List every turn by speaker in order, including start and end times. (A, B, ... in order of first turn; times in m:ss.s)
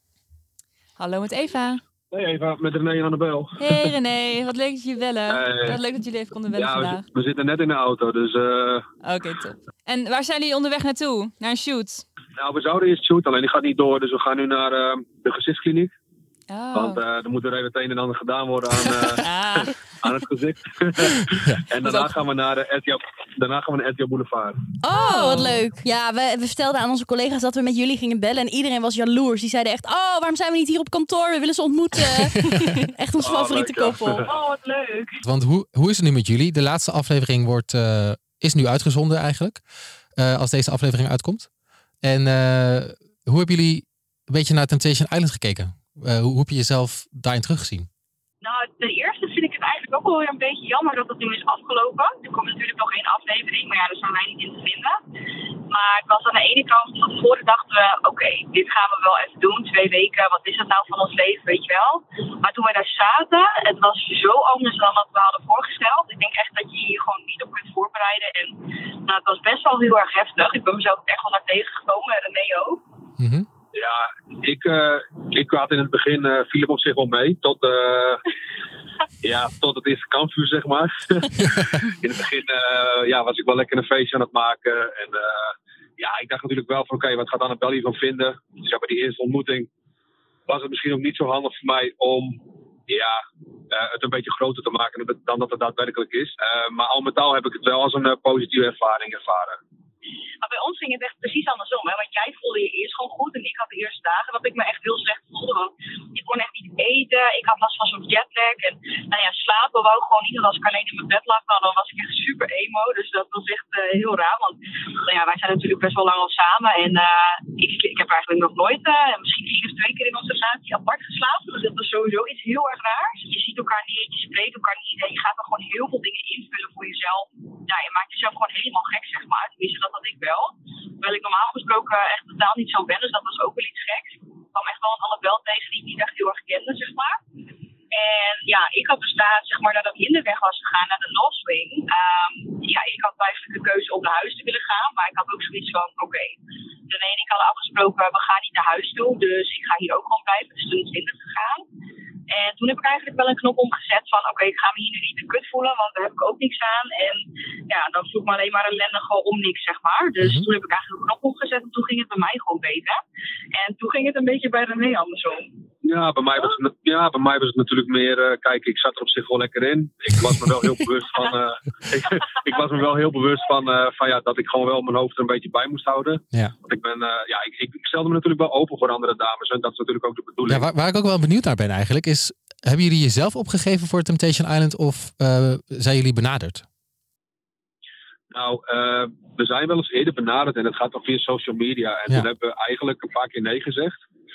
0:01.0-0:01.8 A
0:02.1-0:03.9 B
0:03.6-0:07.0 A
0:05.3-0:05.8 B
0:06.5-0:08.9 B
0:09.0-0:12.0 A
0:12.4-0:15.9 B
0:16.5-0:17.0 A
0:16.7-0:24.6 B
0:19.2-0:19.8 A
0:21.8-0:22.2 A
0:24.8-0:32.4 C
0:24.9-0:25.7 A
0:32.2-0:32.7 D
0:32.9-0:34.2 C
0:33.2-0:34.3 B
0:34.3-0:35.2 E
0:35.2-0:39.6 D
0:40.2-0:41.5 D
0:42.0-0:47.9 D
0:48.4-0:55.0 E
0:55.7-1:12.8 E
1:13.2-1:13.5 D
1:13.7-1:18.2 B
1:19.2-1:29.7 B
1:30.5-1:33.2 B
1:33.7-1:39.6 B
1:40.4-2:17.2 E
2:17.9-2:26.4 E
2:26.9-2:31.6 E
2:32.3-2:43.0 E
2:40.2-2:40.5 D
2:43.6-2:45.5 E
2:45.8-3:00.7 B
3:00.5-3:06.6 D
3:08.3-3:14.0 B